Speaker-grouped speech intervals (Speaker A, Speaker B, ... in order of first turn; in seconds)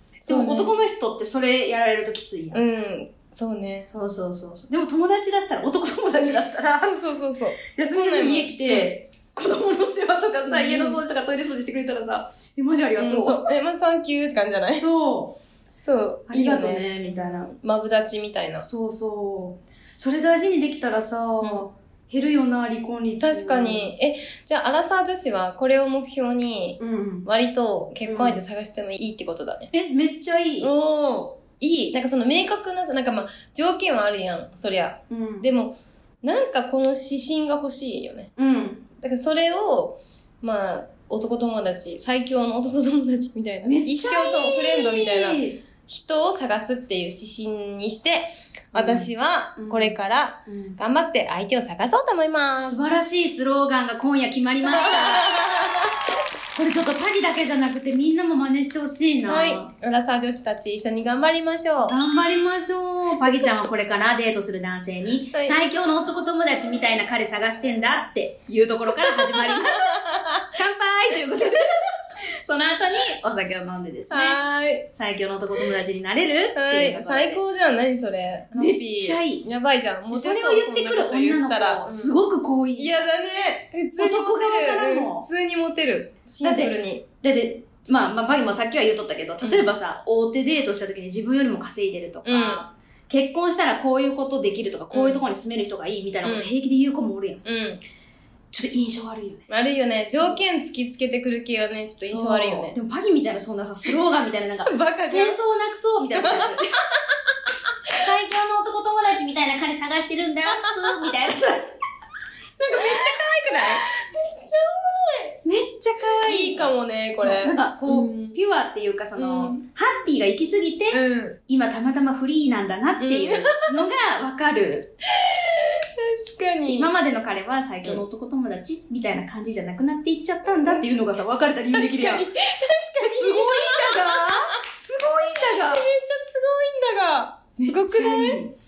Speaker A: 0.2-0.7, 2.5-3.9, 6.2-8.9, 10.5-11.0, 13.0-14.9, 15.8-18.7, 23.2-29.7, 30.6-38.3, 39.0-52.8, 54.6-56.2, 59.3-62.0, 63.2-63.5, 68.9-70.5, 74.1-74.8, 76.5-82.1, 82.8-87.0, 89.4-89.7, 92.2-92.6, 94.9-95.2, 96.2-96.5, 97.4-97.8, 99.5-102.7, 104.7-105.4, 106.1-107.9, 110.5-111.1, 112.7-115.4, 116.0-118.4, 119.2-119.6, 120.9-121.4, 123.0-123.9, 125.1-126.9, 130.4-130.8, 131.7-134.6, 135.4-138.4
Speaker B: 0.2-2.6, 3.9-7.0, 7.6-13.4, 14.8-15.3, 16.3-17.5, 18.6-23.9, 26.8-27.3, 28.1-28.4, 29.7-30.7, 35.1-35.5, 38.4-38.9, 43.6-45.6, 48.7-50.8, 52.6-55.4, 56.5-59.7, 61.9-77.4, 78.5-79.4, 80.1-83.1, 84.0-85.3, 86.4-97.4, 98.5-99.5, 102.0-106.7, 107.9-111.7, 112.6-113.8, 115.4-124.9, 126.7-132.3, 133.0-135.9, 137.6-138.5